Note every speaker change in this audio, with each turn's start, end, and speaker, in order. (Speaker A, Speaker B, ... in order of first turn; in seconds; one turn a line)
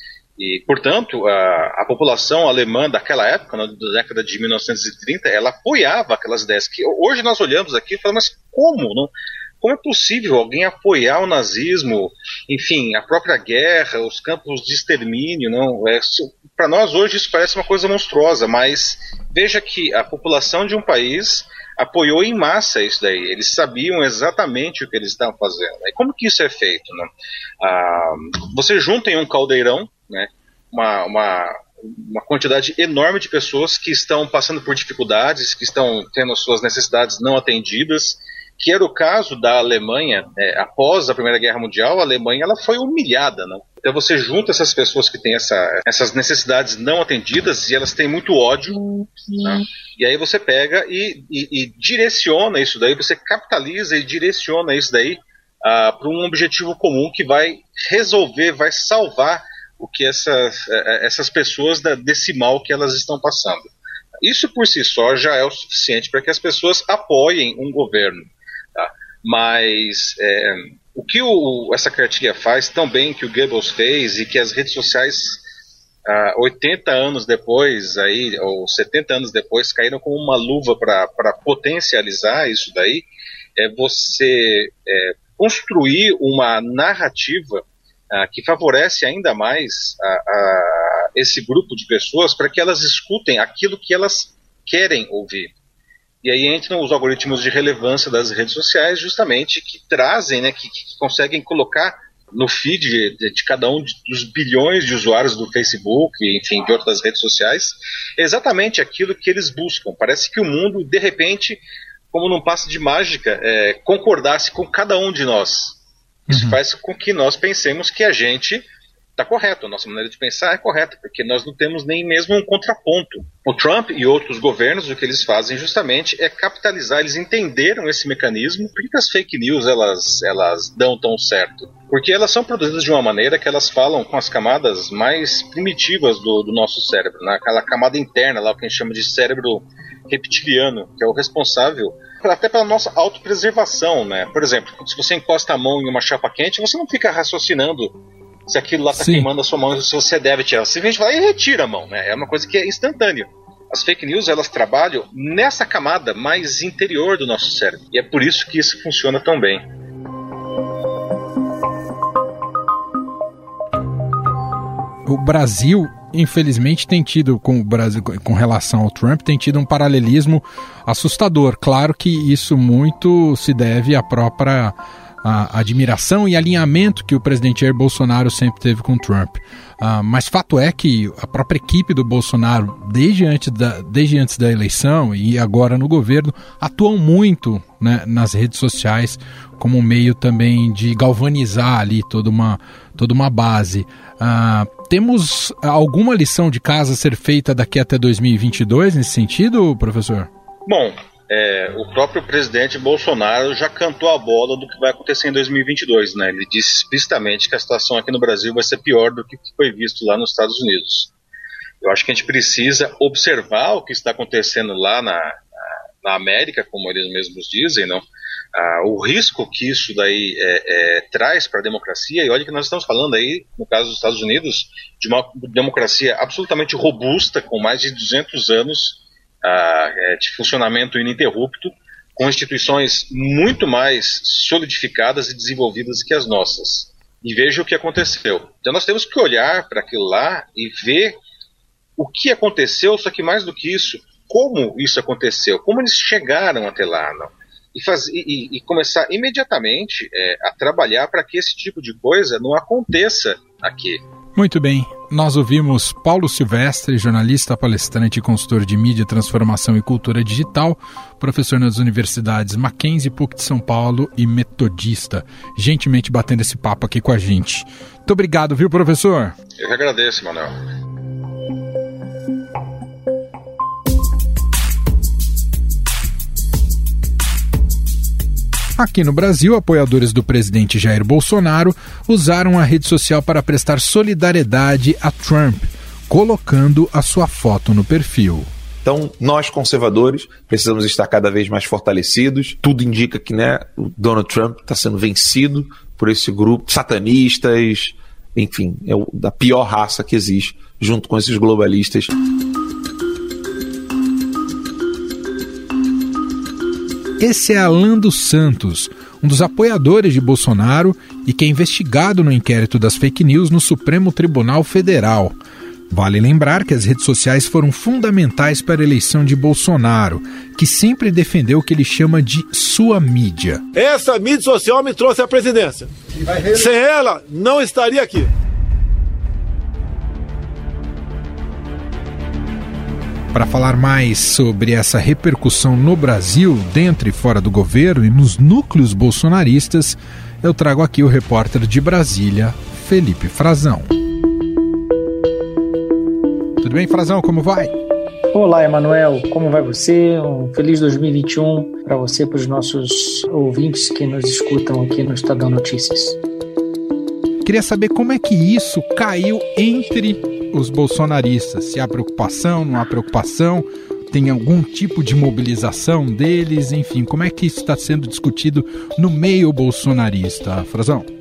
Speaker A: 0.4-27.1
Speaker A: 27.6-63.7
Speaker A: 64.2-68.2
Speaker A: 68.8-75.4
Speaker A: 76.0-83.0
Speaker A: 83.6-95.5
Speaker A: 96.2-115.8
Speaker A: 116.3-118.6
Speaker B: 116.3-116.6
Speaker A: 119.2-159.6
Speaker B: 148.9-149.3
Speaker B: 165.0-200.3
Speaker A: 200.7-211.1
Speaker A: 211.8-215.4
Speaker A: 216.0-241.2
Speaker A: 242.0-254.0
Speaker B: 254.3-269.4
Speaker A: 269.6-270.5
Speaker B: 278.8-288.5
Speaker C: 288.8-302.1
Speaker B: 307.2-315.4
Speaker B: 315.9-323.6
Speaker D: 323.8-328.3
Speaker B: 333.3-343.9
Speaker B: 346.6-347.7
Speaker E: 348.3-356.2
Speaker B: 357.4-371.1